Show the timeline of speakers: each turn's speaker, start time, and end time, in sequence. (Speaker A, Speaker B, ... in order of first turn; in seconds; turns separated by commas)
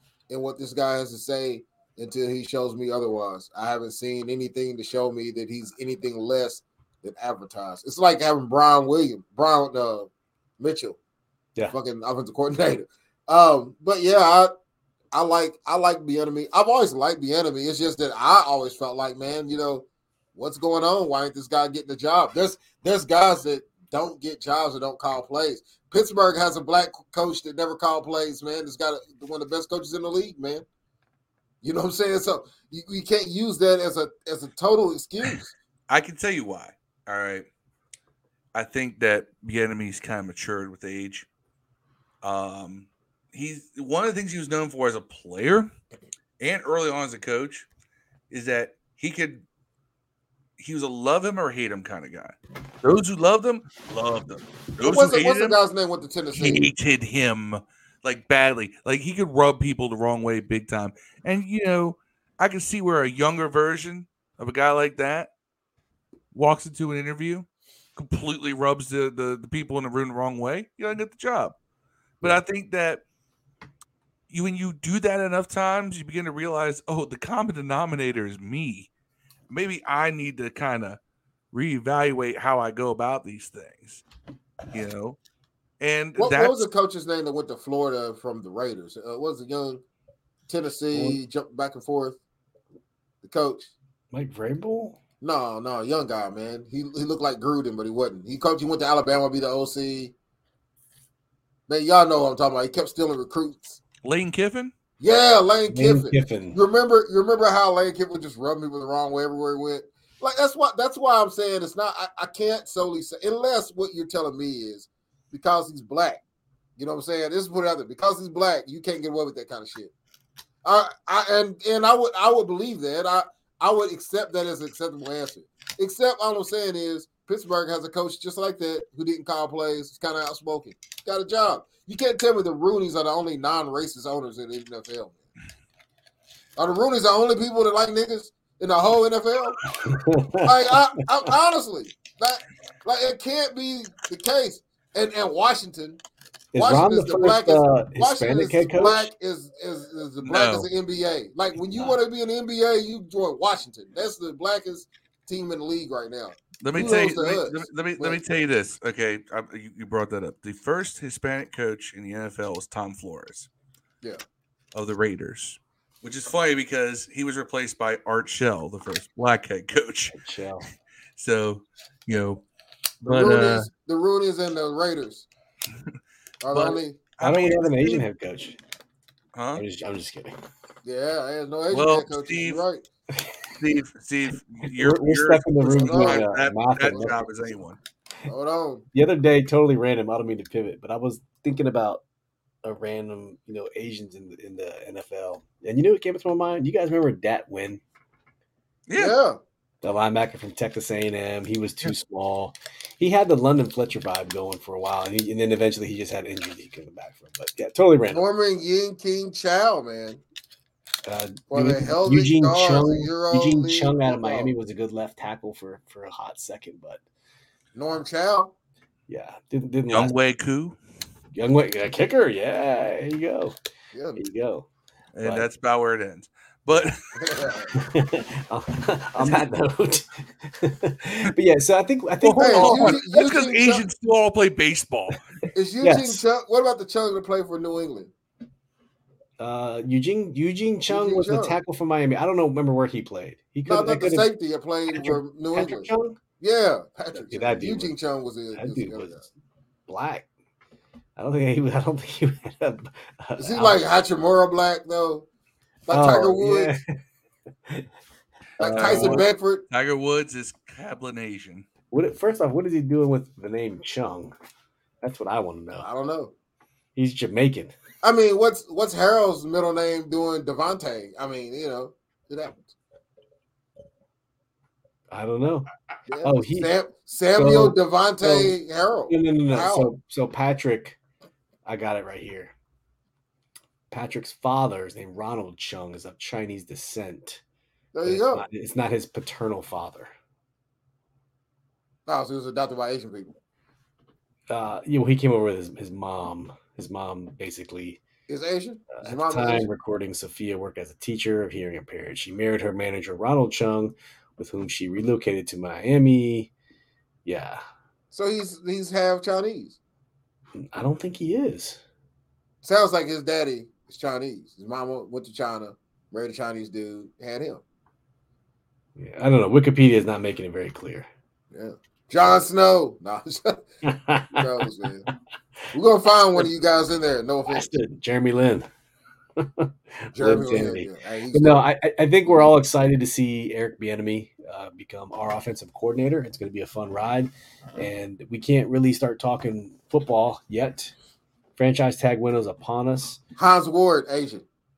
Speaker A: 0.3-10.1, Speaker A: 10.6-11.0, Speaker A: 11.7-14.5, Speaker A: 15.1-30.6, Speaker A: 31.6-35.5, Speaker B: 35.9-37.5, Speaker B: 38.5-41.3, Speaker B: 42.2-45.7, Speaker B: 46.4-47.7, Speaker B: 48.3-49.4, Speaker B: 50.6-55.6, Speaker A: 54.8-56.7, Speaker B: 56.3-65.3, Speaker B: 66.3-71.5, Speaker B: 72.2-73.0, Speaker B: 74.3-78.9, Speaker B: 79.5-81.0, Speaker B: 81.5-84.0, Speaker B: 84.7-85.2, Speaker B: 85.8-86.7, Speaker A: 86.2-89.8, Speaker A: 90.5-92.2, Speaker C: 90.9-91.2, Speaker A: 93.2-93.7, Speaker C: 94.1-95.0, Speaker A: 95.2-100.1, Speaker A: 101.7-103.8, Speaker B: 104.0-104.7, Speaker A: 105.0-116.2, Speaker C: 105.7-106.6, Speaker A: 116.8-119.9, Speaker A: 120.6-135.2, Speaker A: 136.6-139.7, Speaker C: 139.8-140.8, Speaker A: 140.4-146.0, Speaker C: 146.5-149.1, Speaker A: 146.6-158.2, Speaker B: 150.2-150.7, Speaker B: 156.6-163.5, Speaker B: 164.7-170.1, Speaker C: 170.1-170.6, Speaker B: 171.2-172.4, Speaker A: 173.0-175.2, Speaker B: 173.1-173.7, Speaker A: 176.4-177.0, Speaker B: 176.5-178.0, Speaker C: 177.2-178.6, Speaker B: 179.3-179.6, Speaker C: 179.5-180.3, Speaker A: 180.8-182.8, Speaker B: 181.7-182.6, Speaker B: 183.6-187.8, Speaker C: 184.6-187.4, Speaker A: 185.7-186.3, Speaker A: 188.2-188.8, Speaker C: 188.9-192.0, Speaker C: 192.6-197.8, Speaker B: 198.9-199.2, Speaker A: 198.9-199.4, Speaker C: 199.8-208.2, Speaker A: 208.1-210.2, Speaker C: 211.1-217.0, Speaker A: 211.5-214.5, Speaker A: 217.7-218.5, Speaker C: 219.1-220.2, Speaker B: 219.9-220.8, Speaker C: 221.3-223.6, Speaker A: 223.9-224.2, Speaker C: 224.1-224.7, Speaker B: 225.1-226.9, Speaker C: 225.2-225.5, Speaker A: 227.2-227.7, Speaker C: 227.7-233.0, Speaker B: 229.2-229.4, Speaker B: 232.2-235.2, Speaker A: 232.4-233.8, Speaker A: 235.5-238.1, Speaker C: 235.8-236.2, Speaker C: 239.4-244.3, Speaker A: 240.9-241.6, Speaker A: 243.6-249.2, Speaker C: 244.9-246.2, Speaker C: 247.2-247.9, Speaker C: 248.5-249.2, Speaker C: 249.9-250.3, Speaker C: 251.2-253.8, Speaker A: 253.4-255.2, Speaker A: 255.9-256.7, Speaker C: 255.9-256.9, Speaker B: 258.6-261.6, Speaker A: 258.6-259.6, Speaker C: 258.8-259.2, Speaker C: 261.9-264.3, Speaker C: 265.0-265.9, Speaker A: 265.8-266.3, Speaker C: 266.9-267.7, Speaker A: 268.0-272.7, Speaker C: 275.1-275.6, Speaker A: 276.1-279.9, Speaker C: 276.2-276.7, Speaker C: 277.3-278.6, Speaker C: 279.1-281.0, Speaker C: 281.6-282.5, Speaker C: 283.9-287.4, Speaker A: 287.9-288.4, Speaker C: 288.0-290.1, Speaker A: 292.1-293.3, Speaker C: 294.5-298.0, Speaker A: 298.3-299.7, Speaker C: 298.9-306.5, Speaker C: 307.2-307.6, Speaker A: 308.1-309.8, Speaker C: 310.5-311.8, Speaker A: 312.6-317.6, Speaker C: 318.9-321.1, Speaker A: 321.5-323.7, Speaker C: 323.8-324.6, Speaker A: 324.3-325.1, Speaker A: 325.7-327.7, Speaker C: 327.5-328.7, Speaker C: 329.4-340.9, Speaker A: 330.1-331.6, Speaker C: 341.6-343.2, Speaker A: 343.4-344.4